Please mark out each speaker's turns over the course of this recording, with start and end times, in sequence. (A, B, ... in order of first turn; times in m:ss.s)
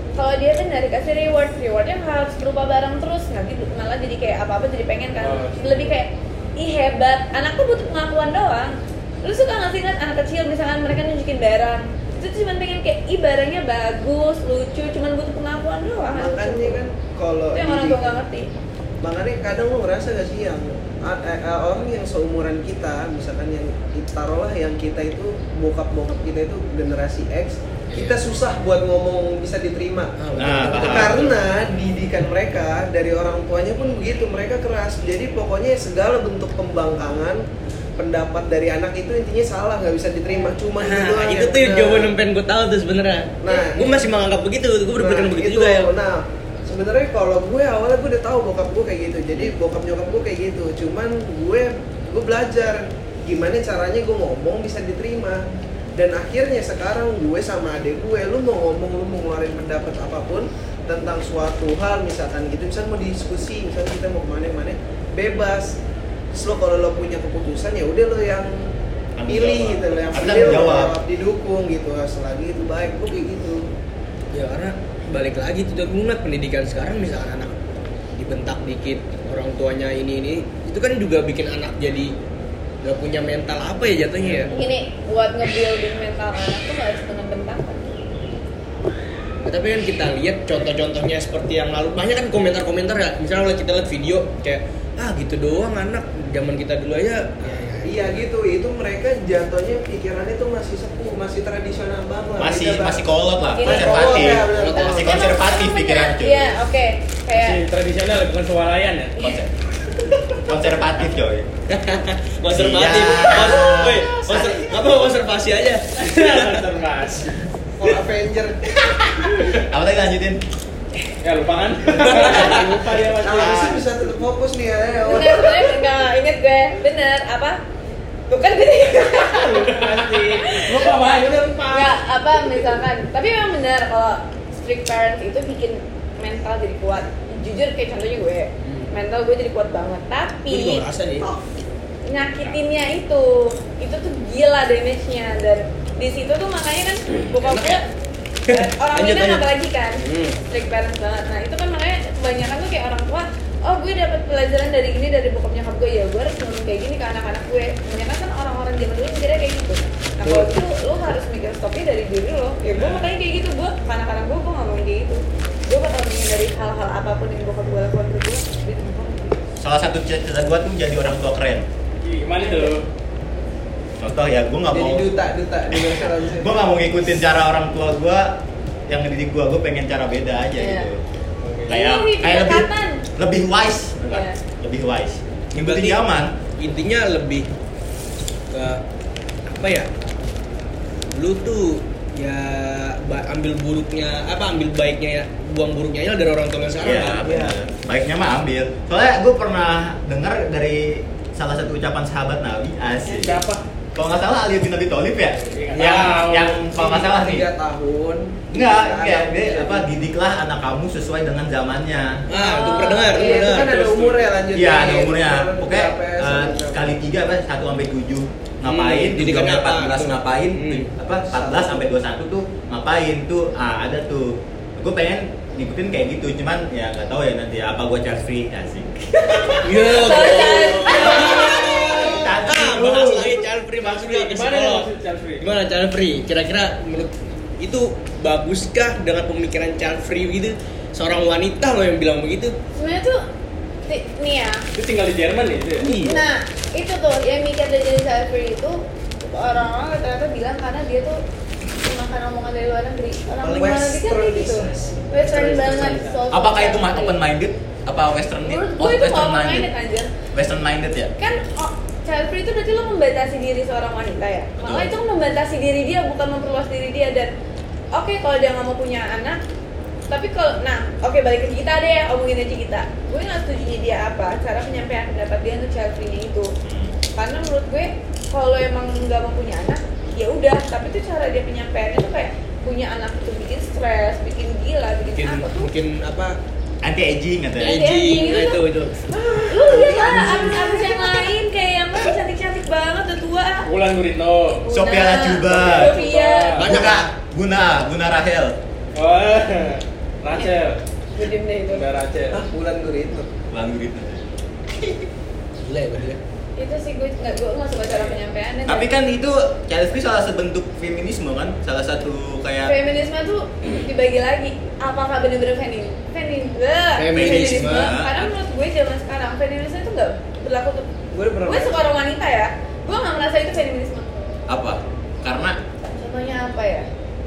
0:00.2-0:16.8 A
0:05.2-0:06.0 B
0:16.1-0:18.2 C
0:17.5-0:18.5 A
0:19.0-0:37.5 C
0:27.9-0:28.2 D
0:30.2-0:31.4 D
0:30.4-0:31.3 E
0:38.0-0:42.1 C
0:40.8-0:45.9 D
0:43.4-0:44.1 C
0:45.0-0:55.4 C
0:56.0-1:05.8 C
1:06.3-1:08.7 C
1:09.2-1:11.0 E
1:09.3-1:13.7 C
1:14.3-1:17.6 D
1:18.2-1:22.1 D
1:22.8-1:24.5 D
1:24.5-1:27.9 A
1:29.4-1:38.2 D
1:37.8-1:43.0 C
1:42.4-1:46.6 E
1:43.6-1:47.6 A
1:43.6-1:45.2 C
1:44.5-1:45.0 D
1:47.3-1:49.2 B
1:49.2-1:49.5 E
1:50.4-1:51.5 E
1:51.7-1:56.7 D
1:52.5-1:54.5 E
1:56.0-1:57.4 B
1:57.8-1:59.4 C
1:59.4-2:00.4 E
2:01.2-2:03.9 B
2:02.3-2:05.9 C
2:05.1-2:07.6 A
2:08.3-2:20.8 A
2:09.3-2:12.0 B
2:18.6-2:18.9 D
2:20.5-2:21.3 D
2:22.1-2:27.9 A
2:27.4-2:27.8 D
2:28.5-2:29.5 D
2:28.5-2:49.4 A
2:30.0-2:30.4 D
2:40.2-2:40.5 D
2:42.8-2:43.0 E
2:49.6-2:51.6 E
2:52.0-2:52.8 B
2:52.4-2:52.8 A
2:54.0-2:55.1 E
2:54.7-2:56.8 C
2:55.7-2:58.4 E
2:58.9-3:01.0 E
3:00.6-3:00.9 A
3:01.4-3:01.7 B
3:01.7-3:06.4 E
3:01.7-3:03.0 A
3:04.1-3:04.4 A
3:05.6-3:07.5 D
3:08.5-3:08.8 D
3:09.5-3:09.9 D
3:11.1-3:17.3 D
3:16.8-3:23.4 E
3:17.2-3:17.5 C
3:23.2-3:23.6 B
3:24.0-3:27.5 E
3:25.4-3:26.6 B
3:26.8-3:29.9 C
3:28.5-3:32.2 E
3:32.3-3:34.0 D
3:32.3-3:33.6 A
3:33.1-3:37.0 C
3:33.6-3:34.3 B
3:34.5-3:49.6 E
3:38.6-3:40.9 D
3:41.2-3:41.9 C
3:49.3-3:51.9 A
3:49.6-3:54.9 D
3:51.0-3:53.4 E
3:53.8-3:55.5 B
3:55.4-4:02.6 D
4:02.8-4:03.2 A
4:03.9-4:04.6 A
4:04.8-4:06.1 B
4:05.8-4:06.2 D
4:06.0-4:11.2 A
4:11.8-4:17.2 A
4:13.4-4:16.0 C
4:15.2-4:16.0 D
4:16.3-4:19.7 E
4:18.4-4:20.1 A
4:20.3-4:21.1 E
4:21.2-4:27.3 A
4:24.6-4:24.9 E
4:27.9-4:29.4 A
4:30.1-4:36.5 A
4:36.6-4:36.9 E
4:37.2-4:45.7 A
4:45.2-4:46.4 D
4:46.8-4:47.9 E
4:47.6-4:49.1 D
4:47.6-4:48.6 A
4:49.2-4:51.2 C
4:49.5-4:53.7 A
4:53.7-4:54.6 B
4:54.6-4:56.6 A
4:54.7-4:56.0 E
4:55.7-4:56.8 B
4:56.6-4:57.1 D
4:56.7-4:58.6 E
4:59.0-5:00.8 B
5:01.2-5:01.8 A
5:01.7-5:02.4 B
5:02.3-5:03.3 C
5:03.5-5:04.2 E
5:04.8-5:05.0 E
5:05.6-5:06.2 D
5:06.6-5:08.9 A
5:08.7-5:12.8 E
5:12.7-5:20.9 A
5:17.0-5:18.0 D
5:17.1-5:18.3 E
5:21.1-5:21.8 C
5:21.5-5:24.1 A
5:24.5-5:25.6 E
5:25.9-5:26.9 A